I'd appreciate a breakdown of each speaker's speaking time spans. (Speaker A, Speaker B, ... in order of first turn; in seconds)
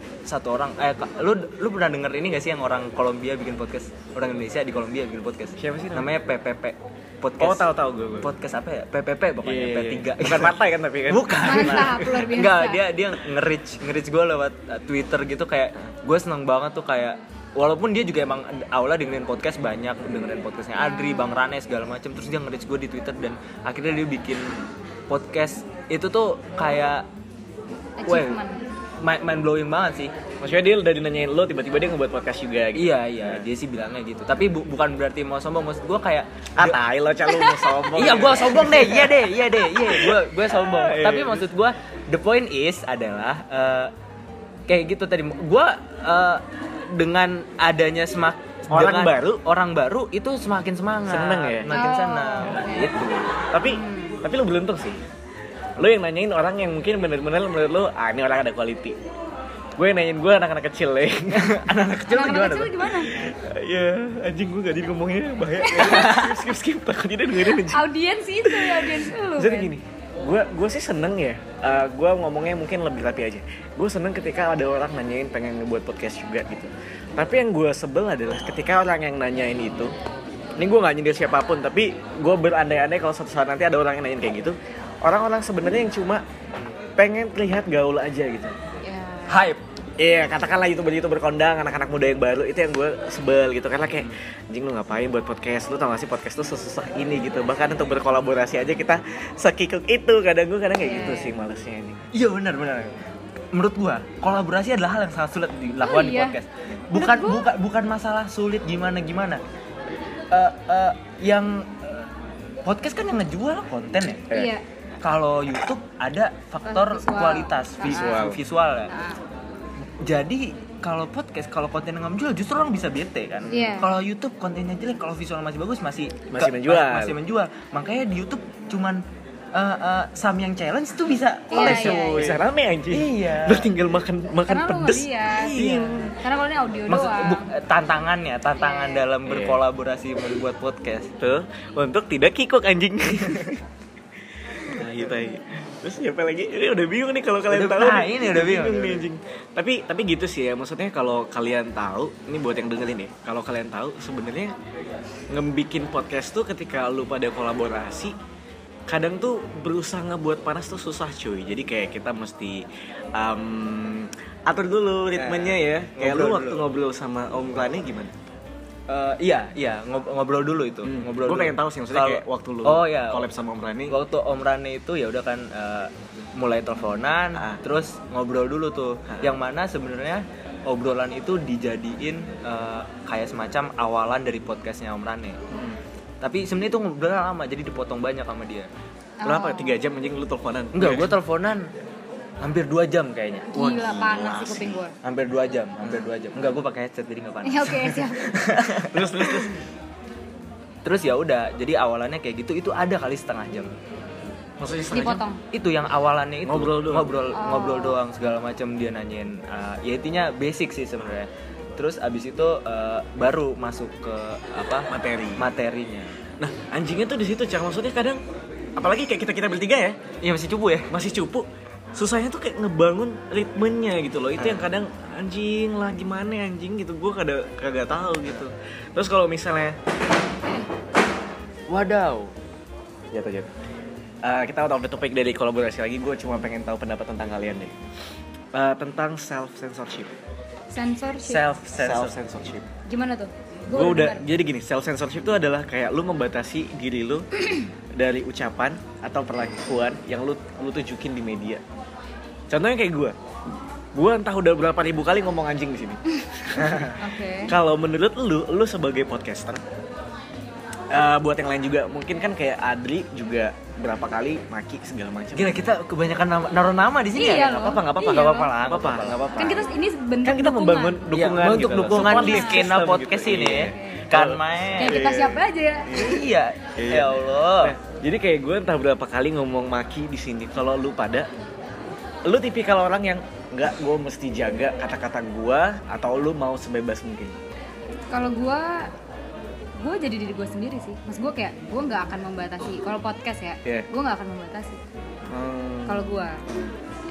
Speaker A: 0.2-7.7, 8.2-10.6, 11.1-24.5, 25.1-27.0, 28.1-28.4, 29.0-30.1, 32.7-36.8, 37.9-43.9, 44.7-53.2, 61.3-62.9, 65.8-66.4, 89.3-89.6, 102.1-102.9, 103.5-109.4, 110.3-112.0, 112.6-114.2, 115.0-118.9, 120.0-129.0, 129.5-133.7, 135.4-135.9, 136.9-141.1, 147.5-149.0, 165.2-166.6, 168.9-173.2, 173.9-185.4, 186.2-188.7, 190.7-191.7, 192.4-193.5, 195.0-199.5, 200.8-203.7, 205.5-216.1, 220.2-220.9, 224.4-224.7, 231.7-232.3, 241.2-242.1, 256.6-256.9, 265.3-269.2, 271.1-275.1, 275.9-277.7
Speaker B: 5.6-6.1, 7.4-8.3, 9.4-12.0, 30.4-33.5, 36.6-41.5, 48.7-49.4, 51.1-51.8, 52.7-55.0, 55.8-59.0, 59.8-61.6, 63.1-67.8, 68.4-79.9, 80.6-86.2, 87.0-88.5, 90.0-102.0, 117.8-118.4, 126.3-127.2, 131.5-136.1, 139.2-139.6, 141.2-143.6, 144.7-154.5, 155.3-158.2, 158.9-162.6, 163.2-168.2, 170.8-173.9, 177.3-177.6, 179.1-179.3, 185.5-185.8, 189.2-191.1, 193.5-194.8, 198.9-199.6, 204.6-205.2, 206.4-207.2, 214.9-215.5, 216.4-218.2, 218.8-220.0, 220.9-229.8, 233.1-233.5, 234.2-237.7, 238.5-240.1, 241.8-242.7, 243.7-247.2, 247.9-251.6, 252.5-253.1, 253.9-259.6, 260.9-265.6, 267.2-269.7, 270.2-276.2, 276.8-281.3, 282.2-287.4, 295.3-296.7
Speaker C: 11.4-12.8, 20.8-21.4, 28.0-28.6, 37.2-37.8, 51.7-52.9, 53.6-54.2, 62.1-63.1, 65.6-66.2, 67.4-69.7, 88.8-89.4, 100.8-101.3, 105.8-106.3, 106.9-107.5, 114.3-114.6, 116.6-118.3, 118.9-119.2, 123.5-123.9, 131.5-132.3, 134.4-135.5, 136.2-137.5, 138.6-139.0, 189.2-189.7, 193.5-194.9, 197.4-198.3, 204.9-205.4, 207.3-208.0, 240.7-241.4, 242.9-244.2, 257.0-257.5, 267.1-268.5, 269.4-271.1, 271.9-272.6, 273.5-274.1, 274.8-275.9, 288.1-288.9, 289.8-294.8, 295.9-296.4